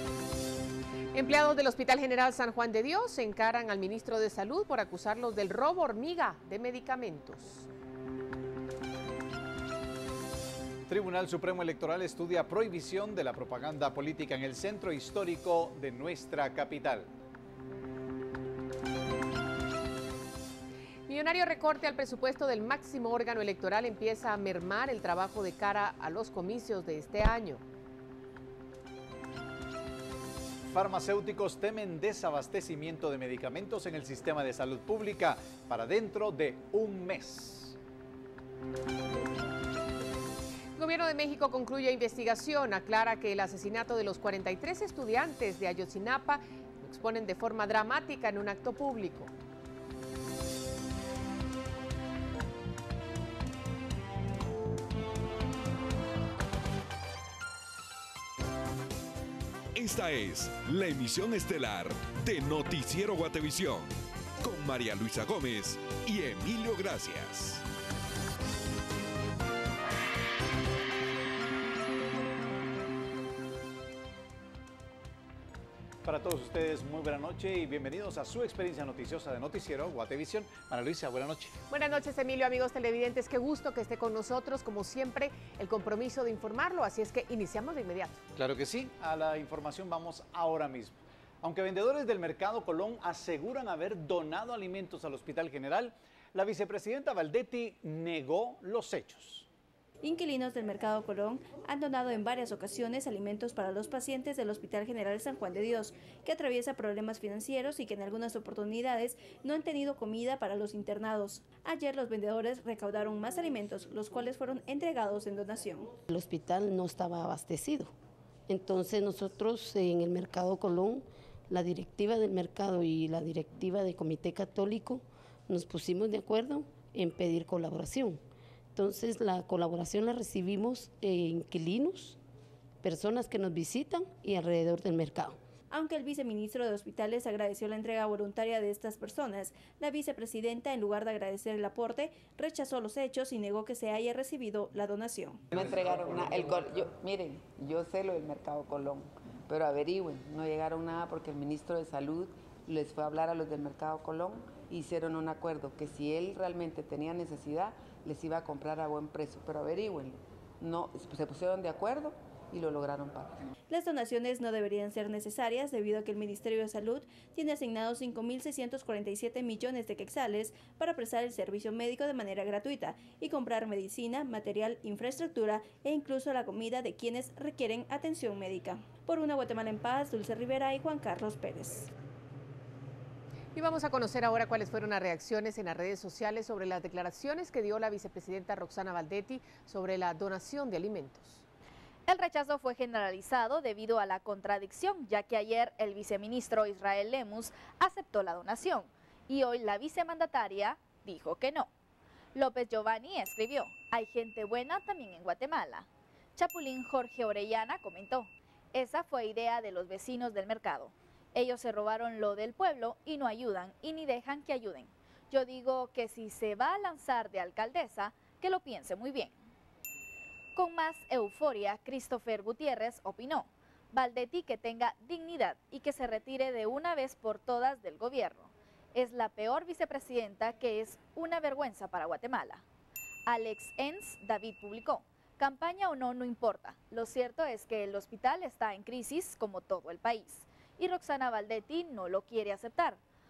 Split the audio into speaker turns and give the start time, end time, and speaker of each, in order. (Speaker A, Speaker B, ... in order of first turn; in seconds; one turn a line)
Speaker A: 1.1-7.7
Speaker B: 10.9-17.1
Speaker A: 21.1-27.6
Speaker B: 30.7-37.8
Speaker A: 40.8-49.3
Speaker C: 59.8-63.9
Speaker C: 64.4-67.6
Speaker B: 76.0-81.6
Speaker A: 81.7-88.2
Speaker B: 88.3-99.5
Speaker D: 100.0-115.9
Speaker E: 116.1-117.9
Speaker E: 118.5-128.2
Speaker E: 128.7-132.2
Speaker E: 132.8-135.4
Speaker D: 135.7-145.4
Speaker F: 145.6-163.4
Speaker D: 163.7-181.9
Speaker A: 183.5-191.4
Speaker G: 192.1-201.7
Speaker G: 202.3-219.3
Speaker G: 220.5-232.6
Speaker G: 233.3-243.0